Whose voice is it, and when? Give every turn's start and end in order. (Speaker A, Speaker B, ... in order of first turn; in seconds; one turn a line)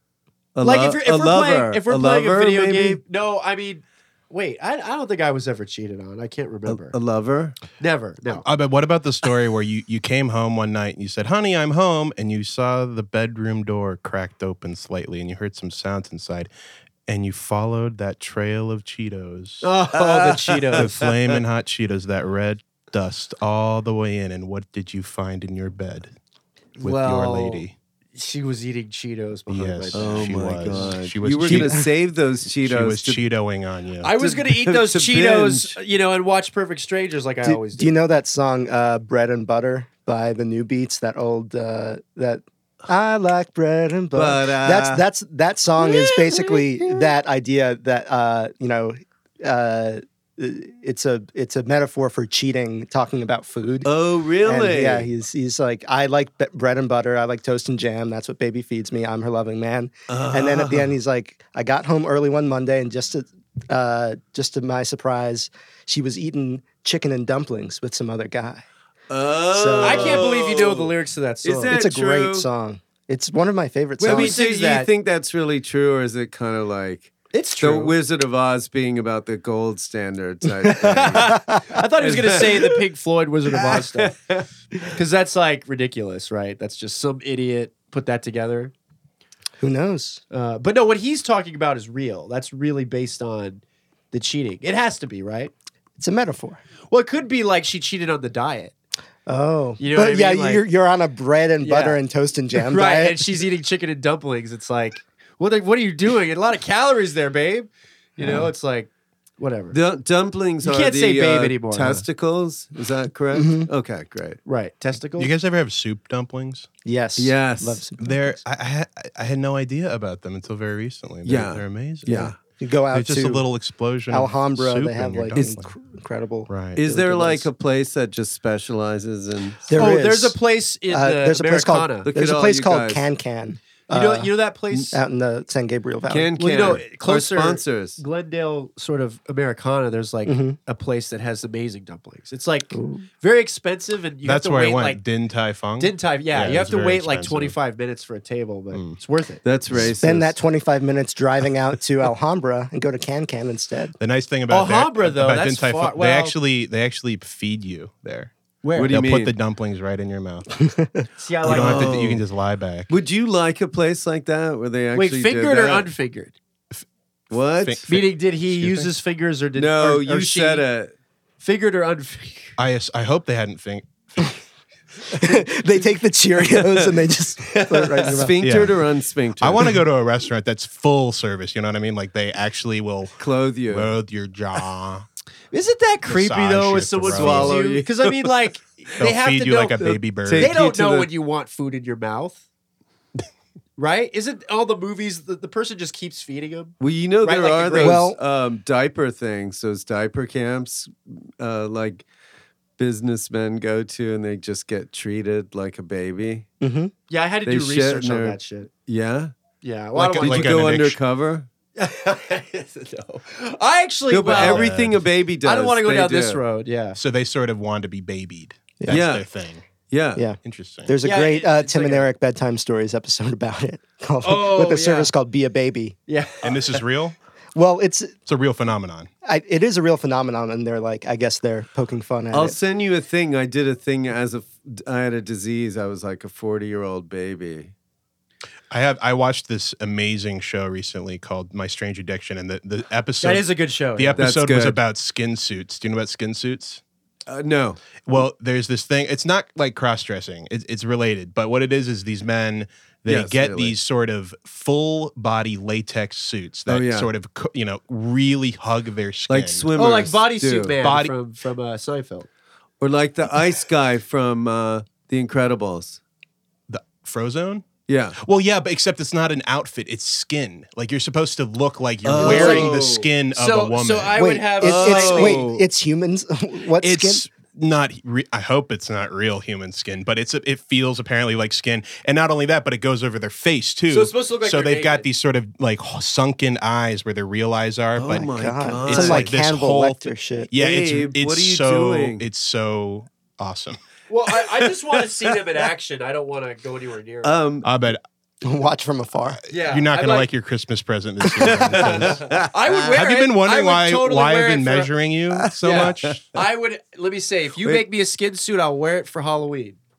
Speaker A: 0.6-3.0
Speaker B: 0.6-6.9
Speaker A: 6.7-7.6
Speaker B: 7.8-8.4
Speaker C: 8.4-16.5
Speaker C: 17.1-19.7
Speaker B: 19.6-21.0
Speaker A: 20.0-21.4
Speaker C: 20.8-26.1
Speaker B: 26.8-30.9
Speaker C: 26.8-27.7
Speaker C: 29.5-31.9
Speaker A: 29.9-33.2
Speaker D: 31.5-31.8
Speaker C: 32.6-34.1
Speaker B: 34.0-37.9
Speaker A: 34.2-35.8
Speaker D: 37.4-53.9
Speaker A: 44.1-45.0
Speaker B: 46.0-46.5
Speaker A: 53.9-55.1
Speaker D: 54.4-68.6
Speaker A: 60.1-60.9
Speaker A: 69.1-70.9
Speaker D: 69.5-70.3
Speaker B: 69.8-71.8
Speaker A: 71.4-72.5
Speaker D: 71.7-74.4
Speaker B: 74.0-74.9
Speaker A: 74.0-81.4
Speaker B: 77.3-78.0
Speaker D: 80.7-81.6
Speaker B: 80.8-84.1
Speaker A: 82.0-82.8
Speaker A: 83.6-84.5
Speaker B: 84.9-88.7
Speaker D: 89.6-90.2
Speaker B: 90.3-95.5
Speaker D: 96.0-96.6
Speaker B: 96.9-98.7
Speaker D: 99.3-103.3
Speaker B: 99.8-100.7
Speaker B: 101.6-102.0
Speaker B: 102.5-109.8
Speaker D: 108.2-108.5
Speaker A: 109.7-114.4
Speaker B: 110.6-112.0
Speaker D: 113.3-113.7
Speaker B: 114.5-115.3
Speaker C: 115.2-116.7
Speaker D: 116.8-118.4
Speaker A: 117.2-117.8
Speaker C: 118.0-122.3
Speaker A: 121.2-122.4
Speaker D: 122.1-123.5
Speaker C: 122.9-125.7
Speaker D: 124.1-127.5
Speaker C: 126.5-126.8
Speaker A: 126.8-129.8
Speaker D: 129.7-134.3
Speaker B: 129.8-132.1
Speaker A: 132.1-133.1
Speaker B: 133.9-135.0
Speaker D: 134.9-136.8
Speaker A: 136.1-138.0
Speaker B: 136.4-145.0
Speaker D: 140.3-140.6
Speaker D: 142.7-143.1
Speaker C: 144.2-147.5
Speaker B: 145.8-149.4
Speaker C: 148.7-149.0
Speaker A: 149.4-150.3
Speaker D: 150.0-153.9
Speaker C: 154.0-160.6
Speaker B: 154.5-156.4
Speaker B: 158.6-159.0
Speaker A: 158.8-159.3
Speaker D: 160.6-161.0
Speaker B: 161.2-162.1
Speaker A: 161.4-162.2
Speaker C: 161.4-162.9
Speaker A: 162.9-165.9
Speaker B: 164.9-166.3
Speaker A: 167.3-167.9
Speaker C: 167.6-168.9
Speaker B: 167.9-170.7
Speaker A: 169.6-170.9
Speaker B: 171.4-172.6
Speaker C: 172.6-174.3
Speaker D: 175.1-178.4
Speaker A: 176.5-176.9
Speaker B: 177.5-178.2
Speaker A: 178.0-179.8
Speaker C: 178.4-178.8
Speaker C: 179.4-185.1
Speaker A: 183.2-183.9
Speaker B: 185.5-192.4
Speaker C: 186.1-187.6
Speaker A: 187.0-188.3
Speaker C: 189.0-190.5
Speaker A: 189.8-191.1
Speaker B: 193.8-198.1
Speaker A: 196.8-202.0
Speaker D: 197.8-198.2
Speaker A: 202.8-206.5
Speaker D: 206.6-206.9
Speaker B: 207.1-208.7
Speaker A: 207.5-209.3
Speaker B: 209.6-210.6
Speaker C: 209.9-211.0
Speaker A: 210.2-211.5
Speaker B: 211.8-214.7
Speaker A: 214.1-216.4
Speaker C: 214.3-215.0
Speaker B: 215.4-217.0
Speaker C: 217.0-219.6
Speaker A: 218.9-219.3
Speaker A: 219.9-220.2
Speaker D: 220.2-226.0
Speaker C: 220.4-220.9
Speaker B: 221.0-222.1
Speaker B: 224.2-225.1
Speaker B: 226.1-226.8
Speaker C: 226.4-227.2
Speaker D: 227.6-228.2
Speaker C: 228.3-229.1
Speaker D: 229.2-232.6
Speaker A: 232.3-237.7
Speaker C: 238.7-246.8
Speaker B: 243.2-244.3
Speaker A: 244.2-244.8
Speaker A: 247.3-248.0
Speaker C: 248.0-259.7
Speaker A: 253.1-253.8
Speaker A: 256.7-257.1
Speaker A: 259.3-260.8
Speaker B: 259.8-262.3
Speaker C: 260.8-261.1
Speaker A: 262.8-266.0
Speaker C: 266.7-267.6
Speaker A: 267.9-268.2
Speaker C: 268.2-274.2
Speaker A: 272.1-273.1
Speaker B: 272.2-275.5
Speaker D: 274.2-277.2
Speaker A: 274.6-275.6
Speaker C: 276.8-293.8
Speaker B: 283.9-285.1
Speaker A: 288.0-289.4
Speaker D: 288.3-290.5
Speaker A: 290.6-292.3
Speaker B: 294.1-297.4
Speaker A: 294.5-295.4
Speaker A: 297.2-297.7
Speaker C: 297.6-298.0
Speaker D: 298.4-299.4
Speaker B: 299.5-300.3
Speaker C: 299.5-306.2
Speaker A: 301.4-302.5
Speaker B: 301.7-304.9
Speaker A: 305.3-306.4
Speaker B: 305.6-309.8